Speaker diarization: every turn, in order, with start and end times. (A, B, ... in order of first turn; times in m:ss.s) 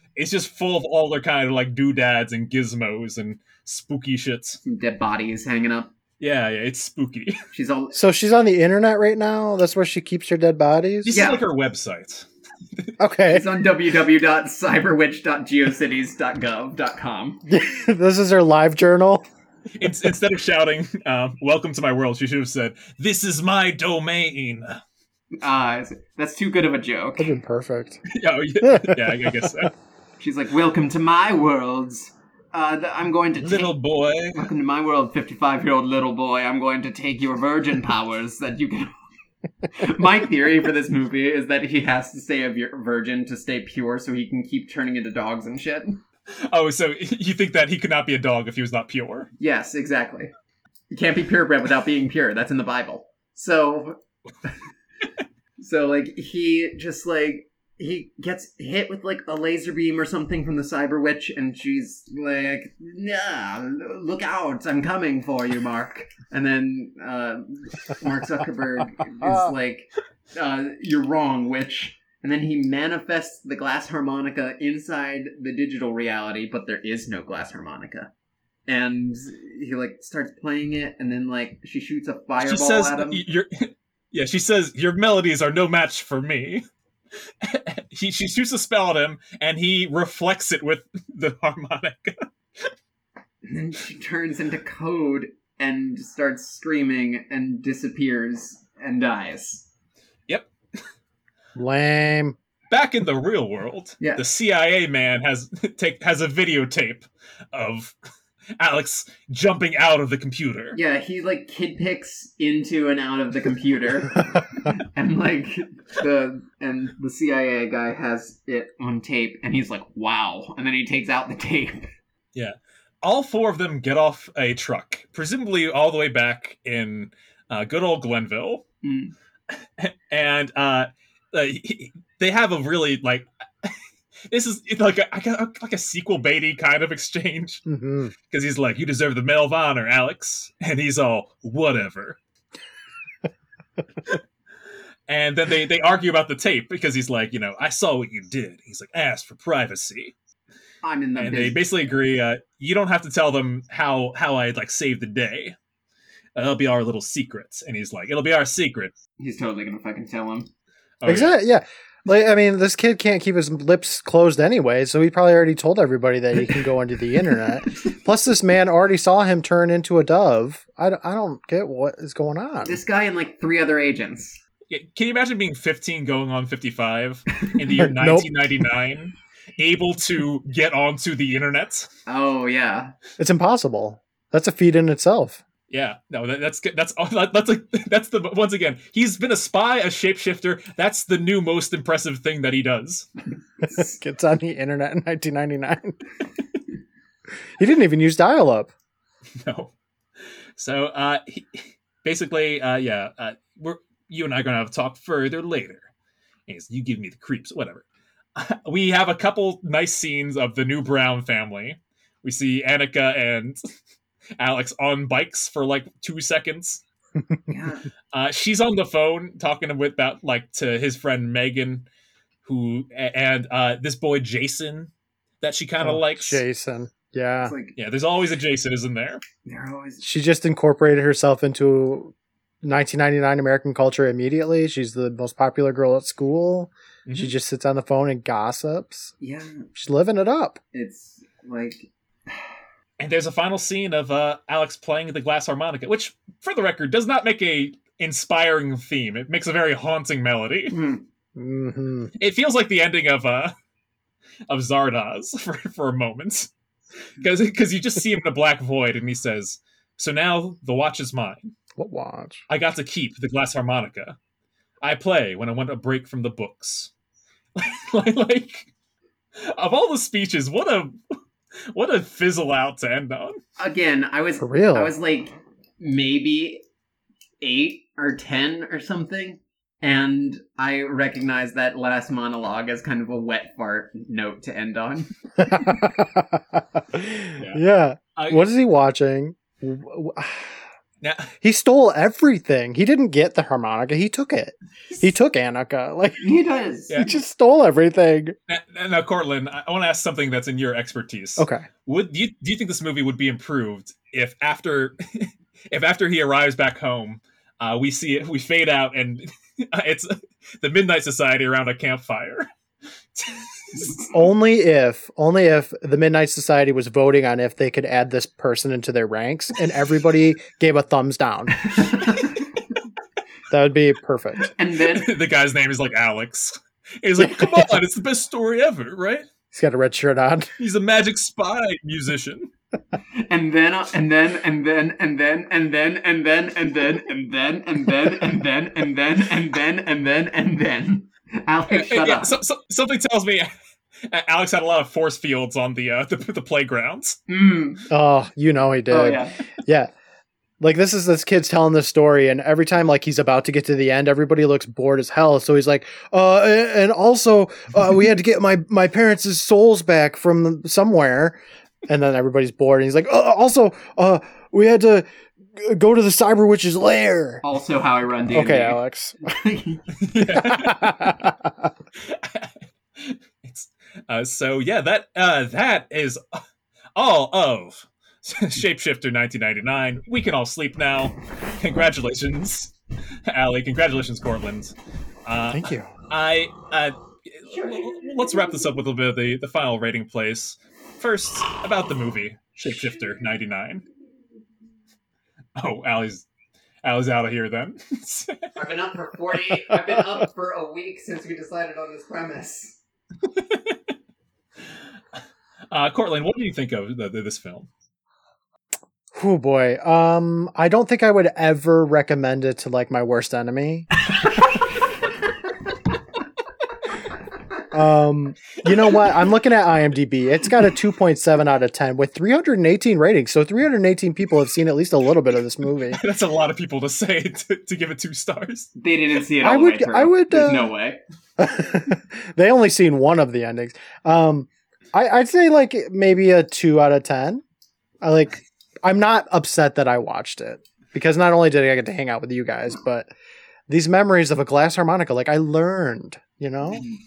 0:00.2-0:04.6 A
0:04.6-0:05.9 B
0:06.2-0:07.4 A
0:07.5-0:08.0 B
0:07.9-0:11.2 C
0:11.0-0:12.9 A
0:11.1-0:11.4 B
0:13.0-0:13.4 C
0:13.3-0:17.4 B
0:17.5-0:19.3 C
0:19.8-0:24.8 A
0:25.4-0:27.3 B
0:27.2-0:28.0 C
0:28.1-0:29.7 A
0:28.6-0:29.5 C
0:30.2-0:33.8 B
0:33.4-0:34.4 A
0:34.3-0:38.9 B
0:39.7-0:46.0 B
0:46.5-0:49.3 A
0:49.4-0:50.3 B
0:50.9-0:54.0 B
0:55.6-1:18.1 B
1:18.7-1:23.2 B
1:22.4-1:26.6 A
1:27.4-1:32.7 A
1:33.4-1:39.7 B
1:41.6-1:42.4 C
1:42.7-1:48.0 A
1:48.6-1:50.8 A
1:50.7-2:01.9 B
2:02.4-2:08.6 A
2:08.8-2:09.1 B
2:09.8-2:13.8 A
2:14.3-2:17.6 A
2:17.7-2:18.1 C
2:18.3-2:22.2 A
2:25.1-2:30.1 A
2:30.8-2:31.6 B
2:31.2-2:35.6 A
2:36.4-2:38.9 A
2:39.2-2:40.5 B
2:41.0-2:41.3 A
2:41.0-2:52.8 C
2:52.6-2:54.4 B
2:54.7-3:01.9 A
2:57.8-2:58.3 C
3:02.1-3:02.9 B
3:03.2-3:05.4 C
3:05.7-3:13.1 A
3:13.6-3:16.0 C
3:17.6-3:18.7 C
3:19.4-3:19.7 A
3:20.6-3:25.9 A
3:26.5-3:27.8 A
3:28.4-3:33.7 A
3:34.4-3:36.8 A
3:37.5-3:37.9 B
3:38.1-3:41.9 A
3:42.4-3:46.4 A
3:45.8-3:47.5 C
3:47.4-3:47.7 B
3:47.8-3:49.2 A
3:49.4-3:50.0 B
3:50.0-3:59.1 C
3:57.1-3:57.3 A
3:59.2-3:59.7 B
3:59.7-4:00.6 C
4:00.7-4:02.5 B
4:03.0-4:10.8 A
4:10.7-4:11.0 B
4:11.4-4:12.1 C
4:12.2-4:13.5 A
4:14.5-4:16.5 A
4:17.2-4:21.5 A
4:21.8-4:22.4 C
4:22.5-4:24.2 A
4:24.8-4:26.9 A
4:27.6-4:28.7 A
4:29.4-4:31.0 A
4:31.7-4:33.4 A
4:33.6-4:36.6 B
4:34.4-4:34.9 C
4:37.4-4:45.1 B
4:45.4-4:50.6 C
4:47.4-4:47.6 A
4:48.2-4:48.4 A
4:51.0-4:51.3 A
4:51.4-4:56.2 C
4:56.2-4:57.0 B
4:56.9-4:57.2 A
4:57.0-4:58.4 C
4:58.5-5:12.5 A
5:01.4-5:01.7 C
5:13.2-5:14.0 A
5:14.1-5:21.7 C
5:21.7-5:22.3 B
5:23.5-5:24.5 C
5:24.5-5:25.1 B
5:24.9-5:29.3 A
5:27.2-5:27.7 C
5:29.5-5:30.5 C
5:30.6-5:32.5 A
5:33.2-5:42.4 B
5:41.7-5:43.5 A
5:44.1-5:47.2 A
5:47.3-5:47.9 B
5:47.9-5:49.9 C
5:48.9-5:49.4 B
5:50.6-6:07.4 C
6:07.4-6:09.9 B
6:08.3-6:09.2 C
6:10.0-6:11.2 A
6:10.2-6:11.7 C
6:12.0-6:16.4 A
6:17.0-6:22.7 A
6:23.3-6:33.8 A
6:25.5-6:25.9 C
6:27.6-6:28.0 B
6:35.6-6:36.2 A
6:36.8-6:38.5 A
6:38.6-6:42.8 B
6:43.3-6:43.8 A
6:45.7-6:47.7 A
6:49.2-6:53.9 C
6:57.7-7:06.0 C
7:05.9-7:08.7 A
7:08.8-7:11.0 B
7:09.4-7:10.7 C
7:11.4-7:17.4 C
7:18.0-7:23.1 C
7:23.7-7:26.8 C